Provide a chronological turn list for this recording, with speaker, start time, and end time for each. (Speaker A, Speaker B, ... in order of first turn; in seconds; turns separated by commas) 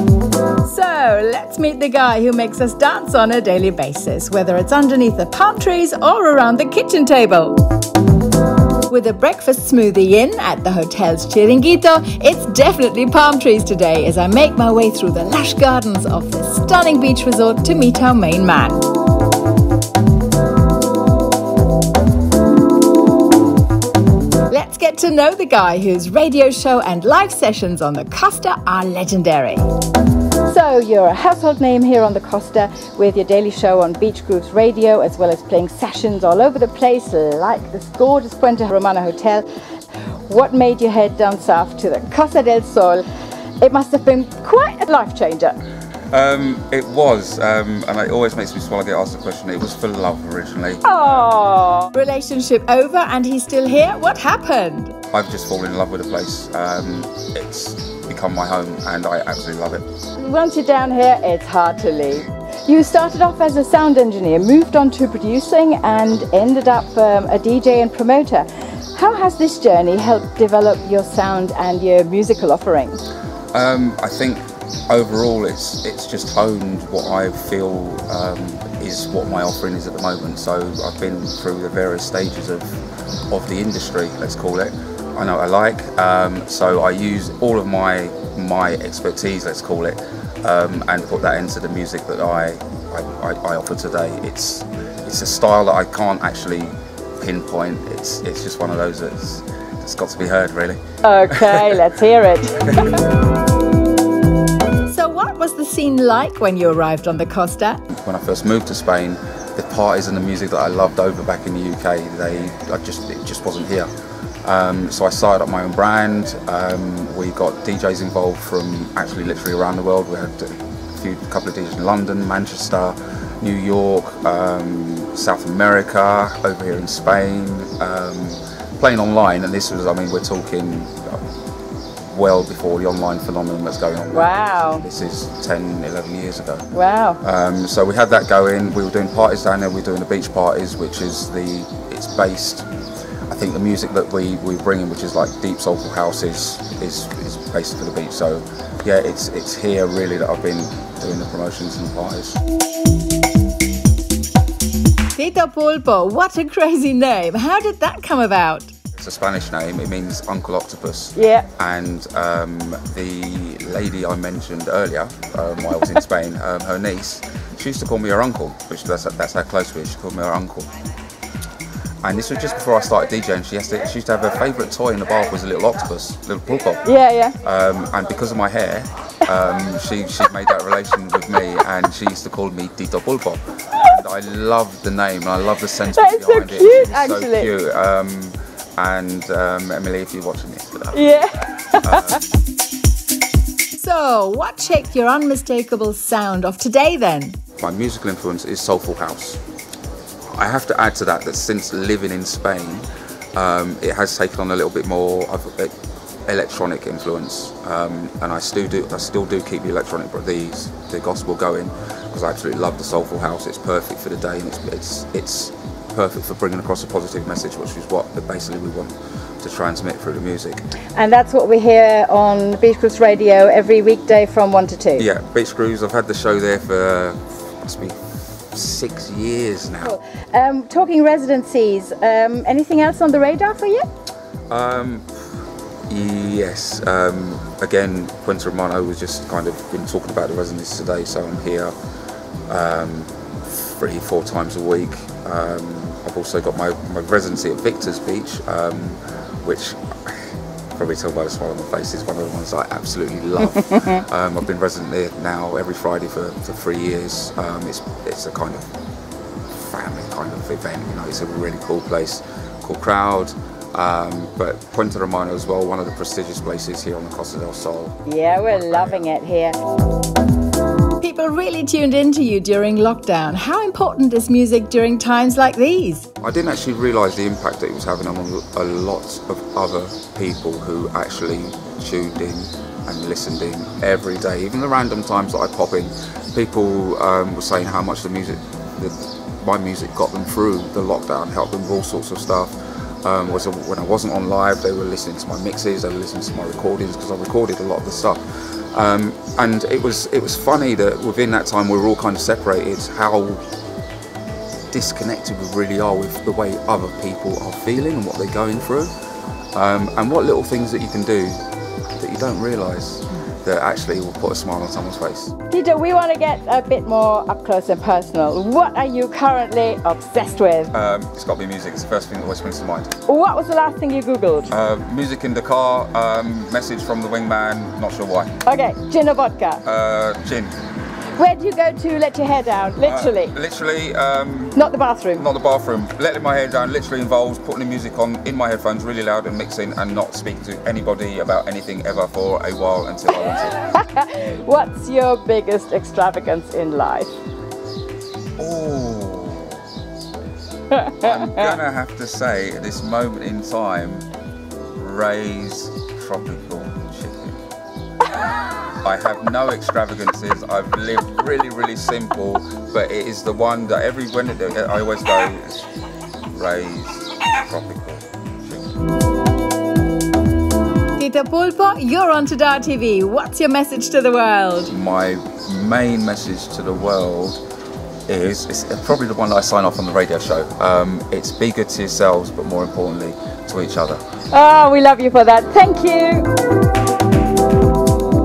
Speaker A: 0.6-7.6, Speaker A: 8.9-18.8, Speaker A: 24.5-29.7, Speaker A: 30.4-39.4, Speaker A: 40.3-43.0, Speaker A: 43.6-45.6, Speaker B: 46.1-51.0, Speaker A: 50.8-54.9, Speaker B: 55.1-59.8, Speaker A: 60.2-73.0, Speaker B: 73.5-100.8, Speaker A: 101.0-102.9, Speaker B: 101.3-101.8, Speaker A: 104.9-107.8, Speaker B: 107.9-113.9, Speaker B: 114.4-131.2, Speaker B: 132.0-136.7, Speaker A: 134.1-134.8, Speaker A: 136.7-137.2, Speaker B: 137.2-142.7, Speaker B: 143.3-152.4, Speaker A: 155.2-158.7, Speaker B: 158.9-170.7, Speaker A: 161.2-161.5, Speaker B: 172.0-176.8, Speaker A: 176.8-177.3, Speaker B: 177.4-191.0, Speaker A: 185.9-187.5, Speaker A: 190.9-192.2, Speaker B: 191.8-192.2, Speaker A: 193.8-197.4, Speaker B: 197.6-199.4, Speaker B: 200.3-205.7, Speaker B: 206.2-220.7, Speaker A: 220.9-225.1, Speaker B: 225.0-229.9, Speaker A: 229.8-233.9, Speaker B: 234.5-235.1, Speaker B: 235.9-241.7, Speaker B: 242.5-258.7, Speaker A: 253.6-254.0, Speaker B: 259.5-269.0, Speaker A: 268.1-269.6, Speaker A: 271.0-276.1, Speaker B: 276.2-303.4, Speaker B: 304.7-308.9, Speaker B: 309.5-311.4, Speaker B: 312.0-315.3, Speaker A: 315.5-320.7, Speaker B: 320.7-323.0, Speaker A: 323.1-324.5, Speaker B: 324.5-328.3, Speaker A: 328.4-329.6, Speaker B: 329.6-330.6, Speaker A: 331.1-333.3, Speaker B: 332.8-334.6, Speaker A: 334.5-335.2, Speaker B: 335.1-343.6, Speaker A: 343.7-347.2, Speaker B: 348.4-349.7, Speaker A: 350.7-351.5, Speaker B: 350.9-354.1, Speaker B: 354.7-357.4, Speaker B: 358.8-365.7, Speaker B: 366.3-368.6, Speaker A: 371.0-374.7, Speaker B: 374.7-377.4, Speaker B: 378.1-384.0, Speaker A: 384.3-386.3